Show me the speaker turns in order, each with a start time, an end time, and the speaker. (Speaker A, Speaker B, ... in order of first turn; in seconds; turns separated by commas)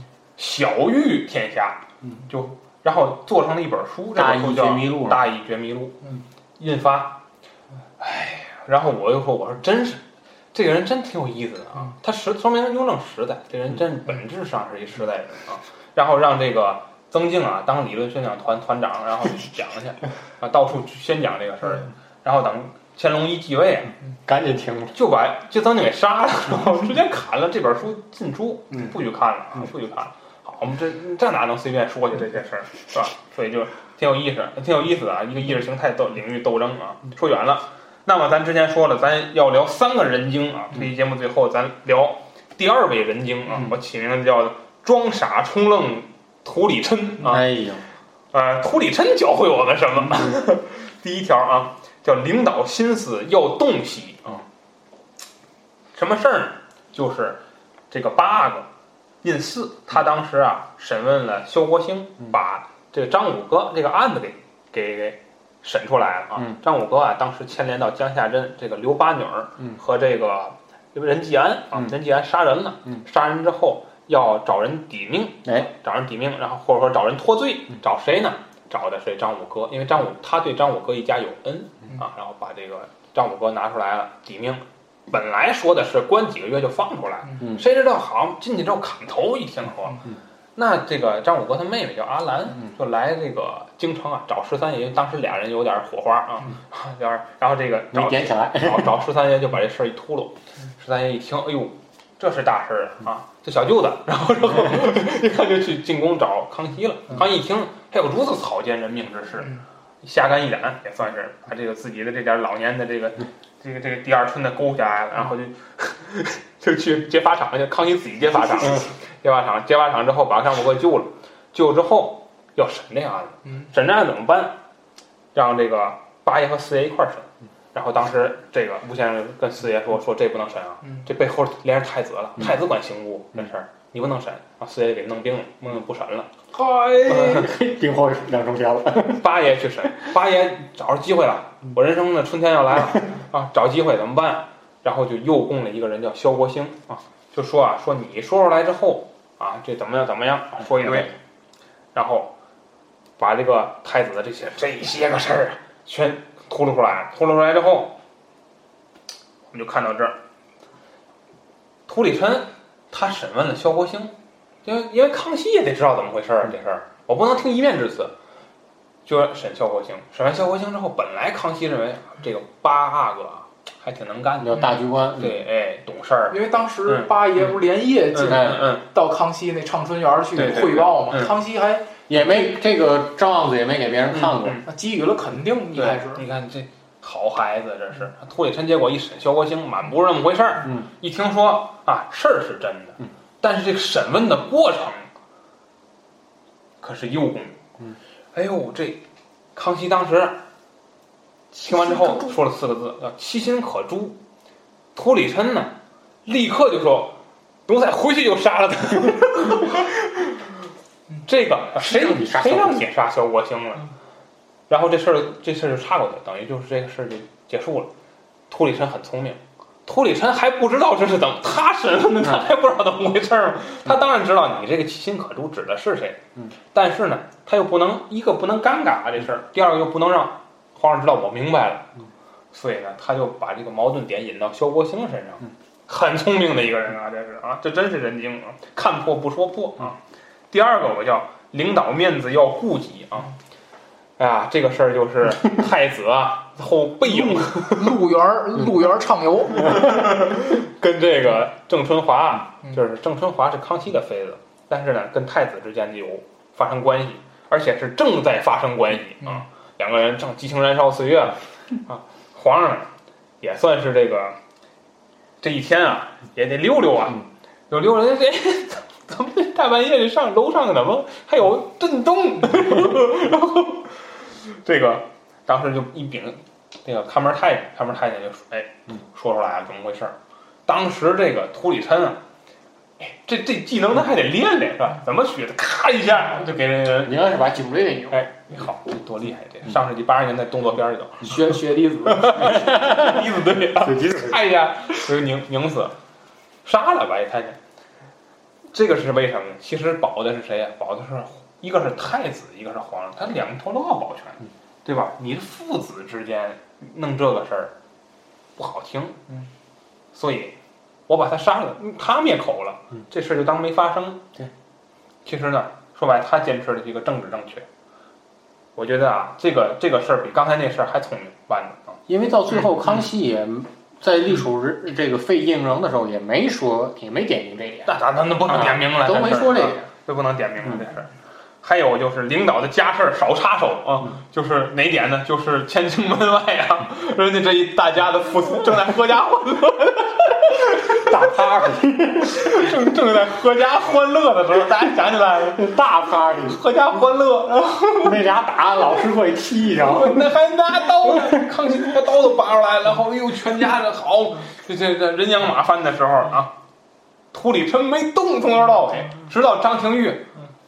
Speaker A: 0.4-7.2, Speaker B: 4.1-5.2, Speaker A: 8.0-10.0, Speaker A: 10.5-23.9, Speaker B: 24.2-24.9, Speaker A: 24.9-47.4, Speaker B: 47.2-47.8, Speaker A: 48.3-54.4, Speaker A: 55.9-57.4, Speaker A: 57.9-58.7, Speaker A: 59.2-90.0, Speaker A: 90.5-124.5, Speaker B: 97.9-98.9, Speaker A: 125.3-136.3, Speaker C: 136.5-137.1, Speaker A: 137.1-137.5, Speaker B: 137.1-139.2, Speaker A: 139.1-151.1, Speaker B: 150.8-151.1, Speaker A: 151.9-152.3, Speaker A: 153.2-158.0, Speaker A: 159.5-160.2, Speaker A: 161.9-164.1, Speaker A: 164.6-168.1, Speaker A: 169.1-174.6, Speaker B: 174.4-175.4, Speaker A: 175.2-177.1, Speaker C: 176.3-181.9, Speaker A: 178.1-178.8, Speaker B: 178.3-178.7, Speaker A: 180.3-181.3, Speaker B: 182.1-184.6, Speaker A: 184.1-184.6, Speaker C: 184.7-186.2, Speaker A: 185.7-195.1, Speaker A: 196.8-197.6, Speaker A: 198.3-199.0, Speaker A: 199.5-200.4, Speaker A: 201.5-204.2, Speaker A: 204.9-205.7, Speaker A: 206.2-210.5, Speaker A: 211.2-213.9, Speaker B: 211.8-212.9, Speaker A: 214.7-217.9, Speaker A: 218.5-226.2, Speaker A: 226.7-231.9, Speaker A: 232.5-240.0, Speaker A: 240.5-243.3, Speaker A: 244.2-248.0, Speaker C: 247.0-249.9, Speaker A: 249.7-262.9, Speaker A: 263.4-264.4, Speaker A: 265.4-282.2, Speaker A: 283.0-287.2, Speaker B: 287.0-288.2, Speaker A: 288.1-291.3, Speaker C: 291.2-292.6, Speaker A: 292.1-295.9, Speaker B: 292.6-293.1, Speaker B: 293.8-294.4, Speaker A: 296.6-297.6, Speaker A: 298.7-307.7, Speaker A: 308.6-309.2, Speaker A: 310.1-310.5, Speaker A: 311.1-314.2, Speaker A: 315.2-317.6, Speaker A: 318.8-322.0, Speaker B: 322.1-327.9, Speaker A: 327.9-331.1, Speaker B: 328.5-329.8, Speaker A: 331.6-341.1, Speaker B: 340.9-342.6, Speaker A: 342.2-345.7, Speaker B: 345.5-346.6, Speaker A: 346.4-348.2, Speaker B: 348.0-350.3, Speaker A: 349.7-356.5, Speaker B: 351.1-351.4, Speaker A: 357.3-360.3